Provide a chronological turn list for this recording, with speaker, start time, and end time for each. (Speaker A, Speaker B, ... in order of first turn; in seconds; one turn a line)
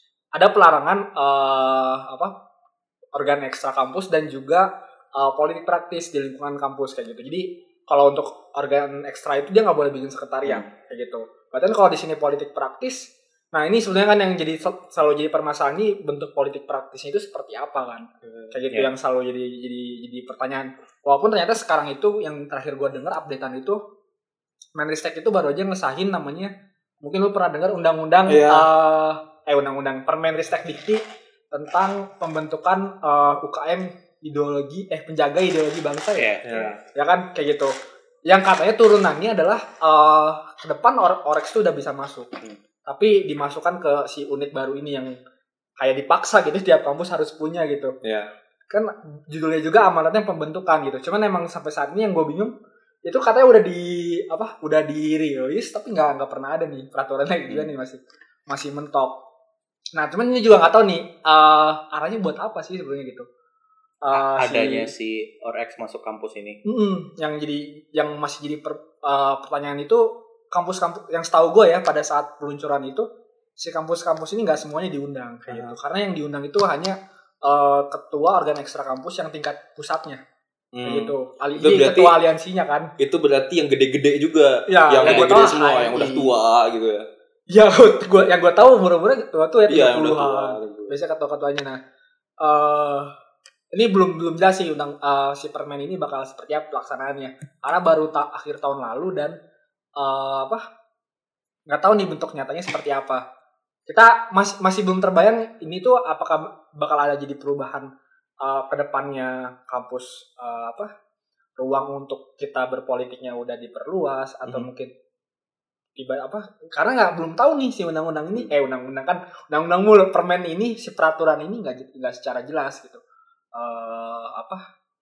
Speaker A: 0.3-2.3
Speaker A: 3.1-23.8
Speaker A: 24.8-36.3
Speaker B: 28.3-28.7
Speaker C: 36.2-36.7
Speaker B: 36.4-36.8
Speaker A: 36.9-37.7
Speaker A: 38.3-42.3
Speaker A: 42.9-45.2
Speaker A: 45.8-47.9
Speaker B: 48.0-48.3
Speaker A: 48.7-52.5
Speaker A: 53.0-59.2
Speaker A: 59.9-63.2
Speaker A: 64.0-64.9
Speaker C: 64.1-66.6
Speaker A: 66.6-73.1
Speaker A: 73.6-80.2
Speaker B: 80.7-82.1
Speaker A: 80.8-82.9
Speaker B: 83.0-87.0
Speaker A: 84.7-86.3
Speaker C: 85.0-85.3
Speaker A: 87.5-91.8
Speaker B: 89.7-90.9
Speaker A: 92.4-93.1
Speaker A: 93.7-99.3
Speaker A: 100.0-100.6
Speaker A: 101.7-103.2
Speaker A: 103.9-107.9
Speaker A: 108.4-110.9
Speaker A: 111.6-114.9
Speaker A: 116.0-123.0
Speaker A: 123.5-124.6